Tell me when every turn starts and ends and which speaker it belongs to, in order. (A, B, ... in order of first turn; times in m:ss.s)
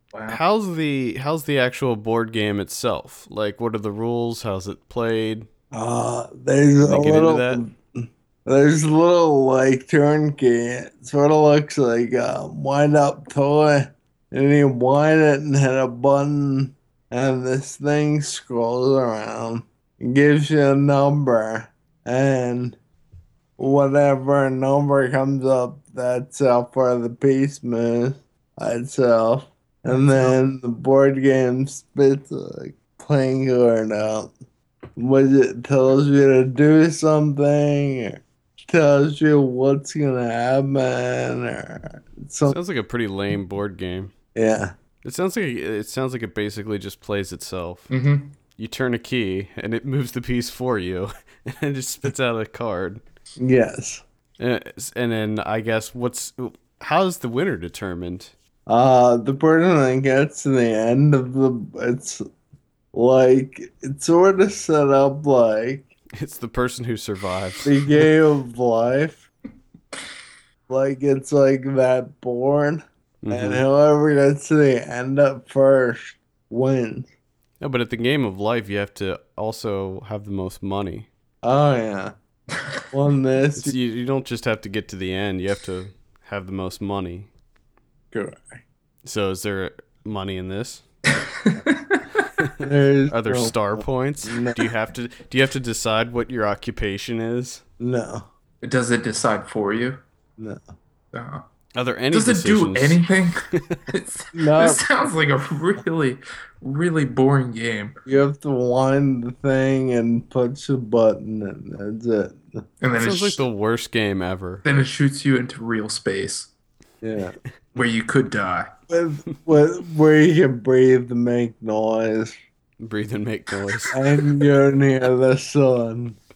0:00.1-0:00.4 A
0:00.3-0:05.5 B
0:05.7-0:22.8 C
0:06.8-0:07.6 B
0:23.6-0:34.3 C
0:29.9-0:30.3 A
0:35.0-0:42.6 C
0:42.4-0:44.1 B
0:44.3-0:44.7 C
0:45.0-0:47.9 B
0:47.9-0:48.4 A
0:48.6-0:53.0 B
0:53.4-0:54.0 C
0:54.4-0:58.3 B
0:58.7-1:02.2 C
1:02.9-1:05.9 C
1:06.2-1:07.8 B
1:07.6-1:09.3 C
1:10.7-1:17.1 C
1:13.2-1:13.6 B
1:17.6-1:21.1 B
1:21.4-1:22.1 C
1:22.9-1:23.8 C
1:23.6-1:27.3 B
1:28.1-1:28.6 C
1:29.0-1:30.8 B
1:31.3-1:32.0 A
1:32.4-1:37.6 B
1:32.6-1:34.6 C
1:37.8-1:38.3 C
1:38.6-1:40.0 A
1:40.4-1:40.6 C
1:41.1-1:41.4 A
1:41.8-1:43.0 B
1:42.1-1:48.0 A
1:43.6-1:43.8 B
1:44.3-1:44.8 C
1:48.0-1:52.6 C
1:52.8-1:53.4 A
1:53.0-1:54.6 B
1:54.6-1:56.5 A
1:57.0-1:57.4 C
1:57.7-1:58.7 A
1:58.9-2:02.4 C
2:02.8-2:04.0 B
2:03.9-2:06.2 C